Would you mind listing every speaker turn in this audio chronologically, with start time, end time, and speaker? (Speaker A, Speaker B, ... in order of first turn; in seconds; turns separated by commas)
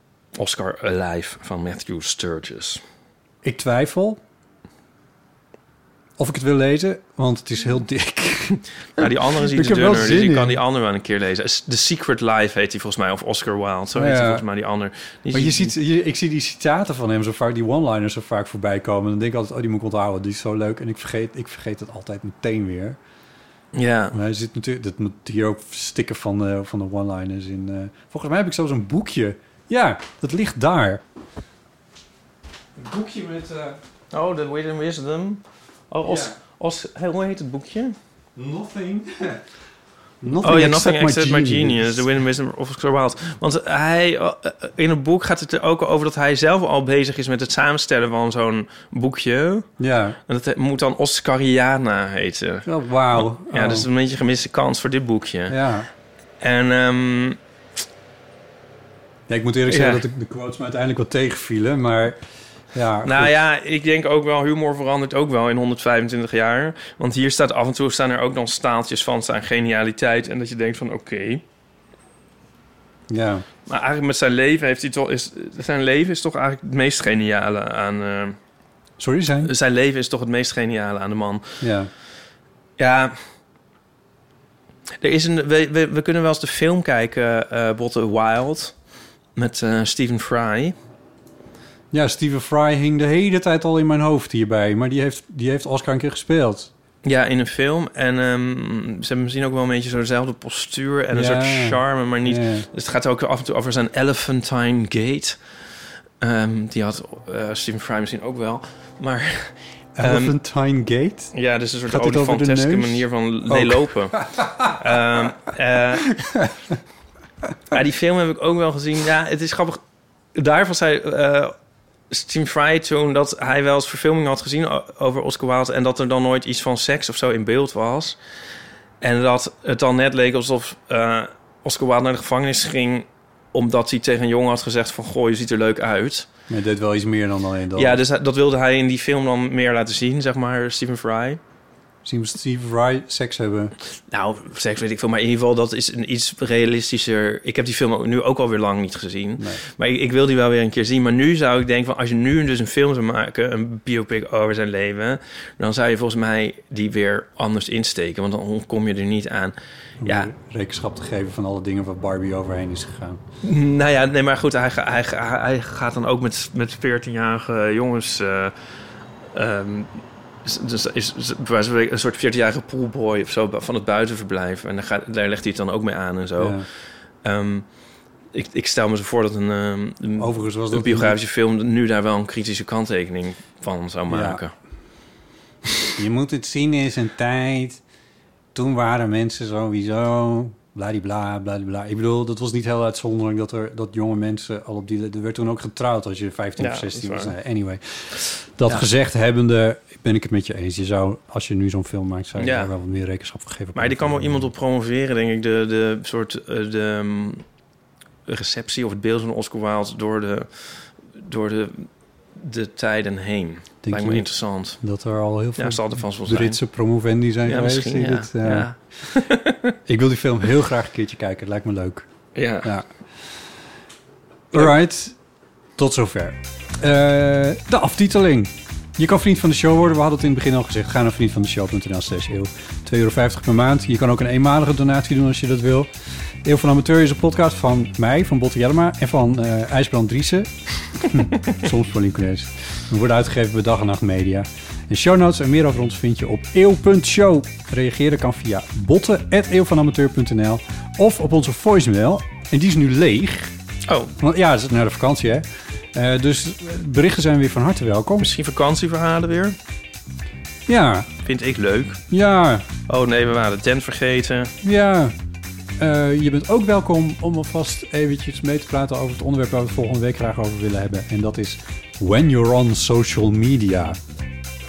Speaker A: 0.3-2.8, Speaker B: 3.4-4.2, Speaker B: 6.2-10.6, Speaker A: 9.0-15.7, Speaker B: 13.9-14.4, Speaker B: 15.3-23.0, Speaker A: 23.7-24.2, Speaker B: 24.1-31.0, Speaker B: 32.8-33.8, Speaker A: 34.1-38.0, Speaker B: 36.0-36.3, Speaker B: 38.4-39.4, Speaker B: 40.2-42.0, Speaker A: 40.4-49.7, Speaker B: 49.8-50.2, Speaker A: 50.3-55.6, Speaker B: 52.6-53.9, Speaker B: 55.5-55.9, Speaker A: 56.4-57.4, Speaker B: 59.3-62.2, Speaker A: 59.7-60.0, Speaker B: 62.7-63.3, Speaker A: 63.0-71.4, Speaker B: 73.1-73.5, Speaker A: 73.7-78.4, Speaker B: 79.0-79.5, Speaker A: 79.4-81.6, Speaker B: 81.6-81.9, Speaker A: 82.8-83.2, Speaker A: 85.0-88.7, Speaker A: 89.4-90.7, Speaker B: 91.9-96.7, Speaker A: 97.0-105.4, Speaker B: 101.1-102.7, Speaker A: 106.2-110.3, Speaker B: 110.0-111.3, Speaker A: 111.3-116.2, Speaker B: 111.9-114.7, Speaker B: 116.1-116.5, Speaker A: 117.7-119.8, Speaker A: 120.3-121.5, Speaker A: 122.1-128.2, Speaker A: 129.0-136.3, Speaker B: 136.5-138.0, Speaker A: 137.7-141.4, Speaker B: 142.0-143.7, Speaker A: 144.1-160.3, Speaker B: 149.4-149.6, Speaker B: 160.0-163.2, Speaker A: 163.4-168.5, Speaker A: 169.3-169.9, Speaker A: 170.4-176.6, Speaker B: 176.4-176.7, Speaker A: 177.2-177.7, Speaker A: 178.3-184.5, Speaker B: 180.2-181.2, Speaker B: 184.1-184.4, Speaker B: 186.0-187.8, Speaker B: 188.5-204.5, Speaker A: 196.6-197.3, Speaker A: 202.4-202.7, Speaker A: 203.7-207.4, Speaker A: 208.3-210.5, Speaker A: 211.1-214.8, Speaker B: 213.8-214.2, Speaker B: 214.8-218.7, Speaker A: 215.6-216.6, Speaker A: 217.4-219.8, Speaker B: 219.9-222.1, Speaker A: 222.3-222.7, Speaker B: 222.6-222.9, Speaker B: 224.5-225.2, Speaker B: 225.8-235.9, Speaker B: 236.4-253.5, Speaker A: 253.9-254.1, Speaker B: 254.2-258.3, Speaker A: 258.2-259.6, Speaker B: 260.7-261.1, Speaker A: 261.2-262.0, Speaker B: 262.1-262.7, Speaker A: 262.9-264.5, Speaker B: 264.6-265.1, Speaker B: 265.8-274.0